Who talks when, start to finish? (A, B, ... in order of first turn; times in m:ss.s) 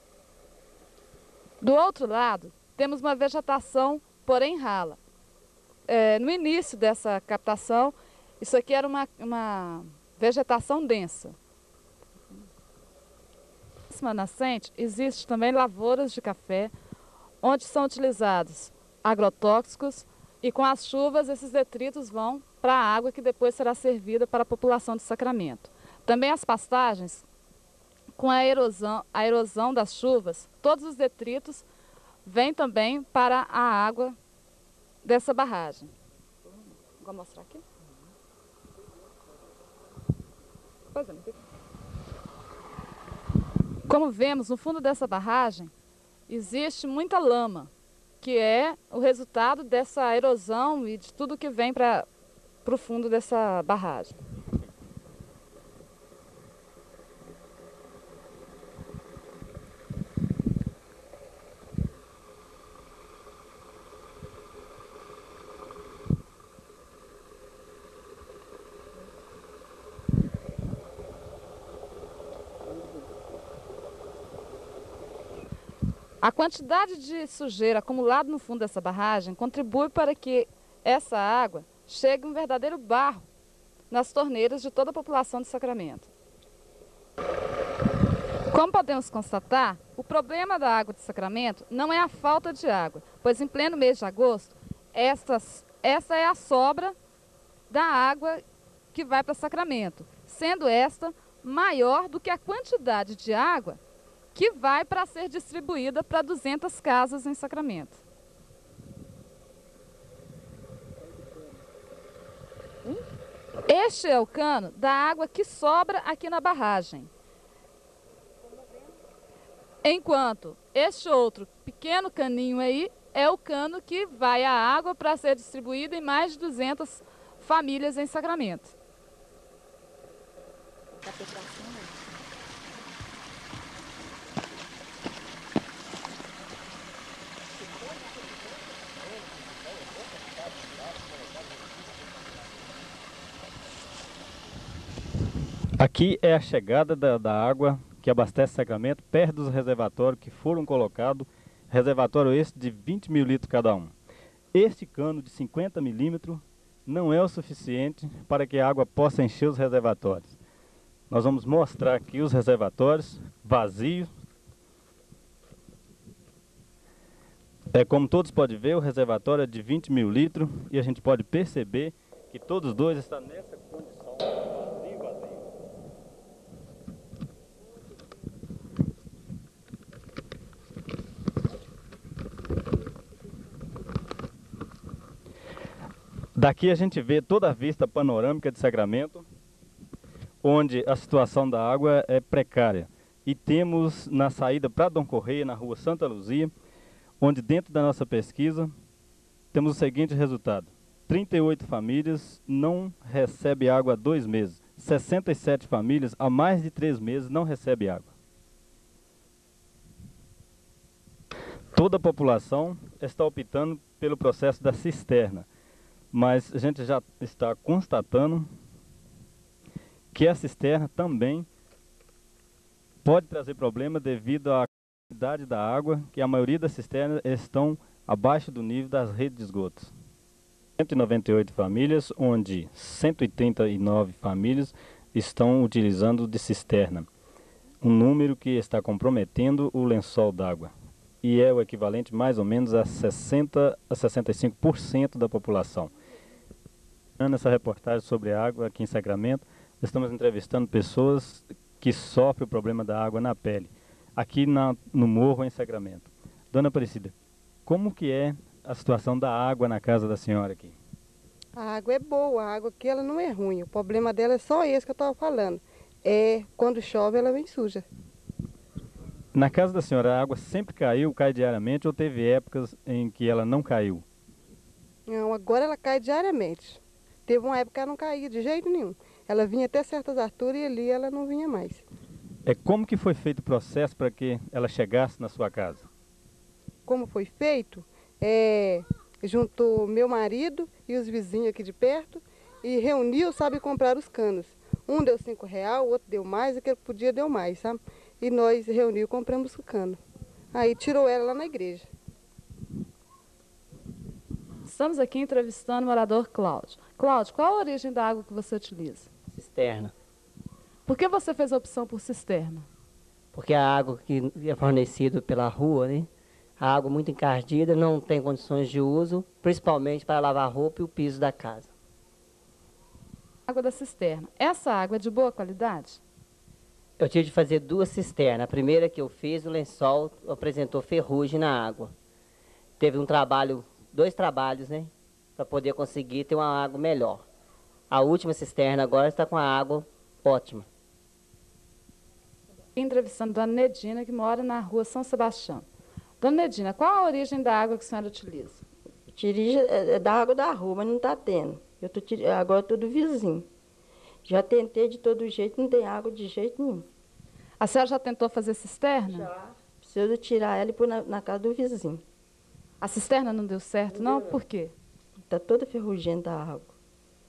0:01.6-0:05.0 A
0:05.9-0:11.4 A
0:13.9-0:16.7 A
0:17.4-0:27.2 A
0:28.2-0:31.6 A
0:32.2-0:34.2 A
0:35.0-0:35.9 A
0:36.5-0:37.6 A
0:40.9-0:41.3 A
0:43.9-0:45.7 A
0:46.3-0:52.1 A
0:52.6-0:54.2 A
1:16.2-1:23.3 A
1:23.9-1:26.1 A
1:28.5-1:37.0 A
1:37.7-1:43.8 A
1:44.4-1:48.0 A
1:53.7-1:57.1 A
1:59.8-2:08.7 A
2:11.4-2:11.7 A
2:25.8-2:33.9 B
2:34.5-2:40.4 B
2:41.1-2:44.1 B
2:47.7-2:55.5 B
3:06.4-3:09.2 B
3:10.4-3:16.5 B
3:17.2-3:18.7 B
3:19.5-3:28.1 B
3:31.7-3:35.5 B
3:36.1-3:38.5 B
3:40.1-3:41.5 B
3:43.0-3:49.9 B
3:50.8-3:57.1 B
3:57.8-4:00.7 B
4:01.2-4:05.9 B
4:07.2-4:17.1 B
4:17.7-4:20.8 B
4:21.6-4:27.8 C
4:29.4-4:34.0 B
4:35.1-4:41.8 C
4:42.5-4:45.9 B
4:46.9-5:00.0 C
5:00.5-5:01.9 C
5:04.6-5:09.1 A
5:09.3-5:09.9 D
5:10.9-5:12.7 A
5:13.3-5:21.7 D
5:23.5-5:26.0 A
5:27.0-5:31.9 D
5:32.8-5:37.3 D
5:37.9-5:40.7 D
5:42.8-5:45.6 A
5:46.2-5:48.6 A
5:49.1-5:53.5 E
5:54.3-5:56.8 E
5:57.6-5:59.3 A
5:59.1-6:02.0 E
6:02.8-6:04.7 A
6:03.9-6:04.3 E
6:05.3-6:06.7 E